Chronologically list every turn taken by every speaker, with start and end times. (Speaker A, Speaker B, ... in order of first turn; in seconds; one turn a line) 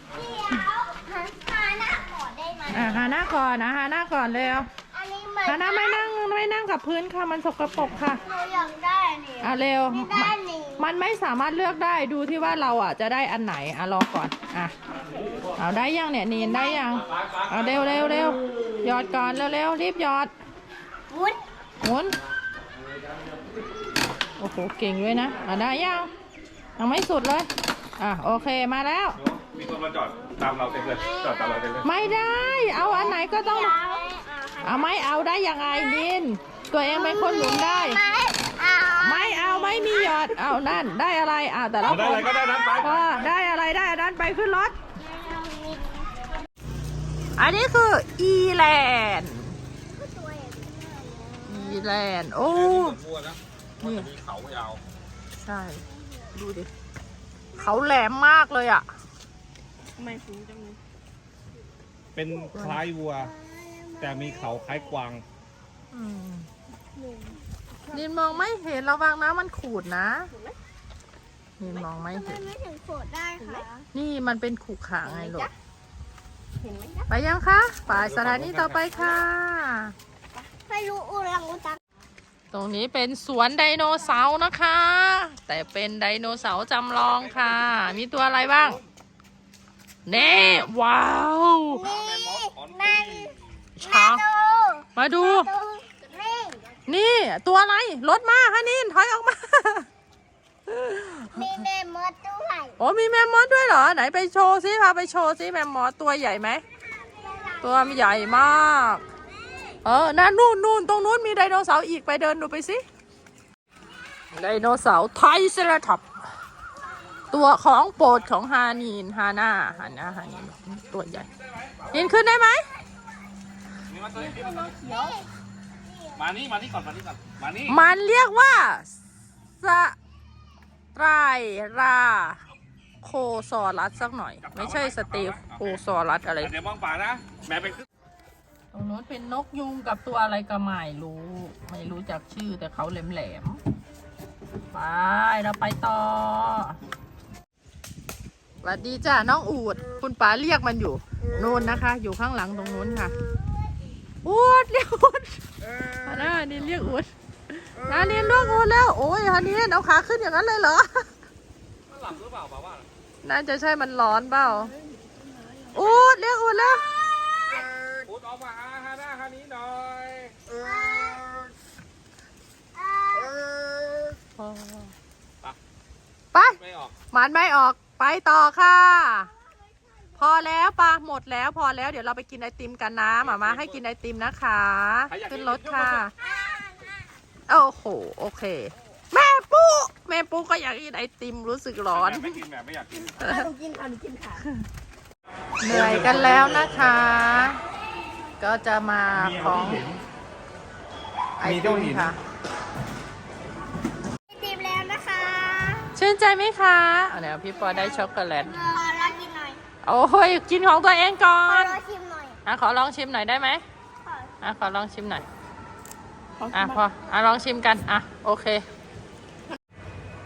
Speaker A: 0.1-3.0
Speaker B: 2.7-4.7
Speaker A: 4.9-6.1
Speaker B: 5.4-8.2
Speaker A: 8.2-10.8
Speaker B: 9.4-14.7
Speaker B: 15.6-20.3
Speaker A: 16.4-16.9
Speaker C: 17.1-17.8
Speaker A: 21.1-21.4
Speaker B: 21.8-22.2
Speaker B: 24.4-26.1
Speaker B: 26.8-29.2
Speaker C: 29.1-31.9
Speaker B: 31.8-33.9
Speaker A: 33.3-35.1
Speaker B: 34.6-38.0
Speaker A: 35.6-36.1
Speaker A: 36.9-40.5
Speaker B: 39.0-44.8
Speaker C: 41.8-43.3
Speaker A: 42.2-42.8
Speaker A: 45.0-46.1
Speaker B: 47.4-49.6
Speaker A: 49.9-52.0
Speaker B: 51.5-53.0
Speaker C: 52.4-54.8
Speaker B: 53.8-54.1
Speaker B: 55.4-56.7
Speaker A: 55.9-56.4
Speaker B: 57.5-58.9
Speaker A: 57.6-57.8
Speaker D: 60.0-60.8
Speaker C: 62.1-63.3
Speaker B: 62.5-62.8
Speaker A: 63.2-65.0
Speaker C: 64.0-65.2
Speaker B: 65.9-66.5
Speaker D: 67.0-67.4
Speaker B: 67.9-70.3
Speaker B: 71.6-72.5
Speaker A: 72.0-73.8
Speaker D: 73.4-73.7
Speaker B: 73.9-75.5
Speaker D: 75.1-75.5
Speaker D: 76.6-77.1
Speaker B: 77.1-79.9
Speaker C: 77.9-79.1
Speaker A: 80.7-81.8
Speaker B: 82.5-88.8
Speaker C: 87.1-88.0
Speaker B: 90.1-91.8
Speaker A: 90.1-90.6
Speaker A: 91.7-96.7
Speaker C: 91.8-93.7
Speaker B: 93.8-94.2
Speaker B: 95.0-95.5
Speaker B: 96.9-99.9
Speaker B: 100.7-101.5
Speaker A: 101.3-102.8
Speaker B: 102.8-106.6
Speaker A: 106.8-108.6
Speaker B: 107.6-109.0
Speaker A: 109.2-109.8
Speaker B: 109.8-112.8
Speaker B: 114.3-116.1
Speaker B: 117.3-121.3
Speaker C: 121.5-122.0
Speaker B: 121.9-122.7
Speaker C: 123.9-124.7
Speaker D: 124.2-125.3
Speaker A: 124.8-125.3
Speaker A: 125.9-126.2
Speaker C: 126.2-127.8
Speaker B: 127.7-128.9
Speaker B: 129.6-130.0
Speaker B: 130.9-132.4
Speaker B: 133.0-136.5
Speaker C: 134.4-135.8
Speaker C: 136.4-137.8
Speaker B: 138.7-143.6
Speaker B: 144.7-146.8
Speaker B: 148.6-153.2
Speaker B: 154.2-161.1
Speaker C: 161.9-162.9
Speaker B: 163.2-164.7
Speaker D: 164.4-165.9
Speaker B: 165.7-166.8
Speaker A: 167.0-167.7
Speaker C: 168.0-170.4
Speaker A: 170.5-171.3
Speaker A: 172.8-173.4
Speaker B: 174.4-174.9
Speaker C: 176.4-176.9
Speaker B: 177.1-179.3
Speaker A: 179.2-180.3
Speaker B: 180.2-186.1
Speaker C: 183.1-183.8
Speaker C: 185.1-186.1
Speaker A: 186.2-187.2
Speaker B: 187.5-192.4
Speaker C: 191.9-193.2
Speaker D: 193.2-194.5
Speaker B: 193.2-193.5
Speaker B: 195.6-197.6
Speaker C: 195.6-197.2
Speaker B: 198.4-199.8
Speaker C: 199.1-200.0
Speaker B: 201.4-202.2
Speaker C: 201.4-202.1
Speaker A: 204.3-205.9
Speaker B: 205.9-208.6
Speaker A: 207.6-209.6
Speaker B: 209.8-211.8
Speaker A: 211.4-212.4
Speaker B: 212.4-213.6
Speaker A: 214.1-214.3
Speaker B: 214.4-215.3
Speaker D: 216.4-216.8
Speaker B: 216.5-218.6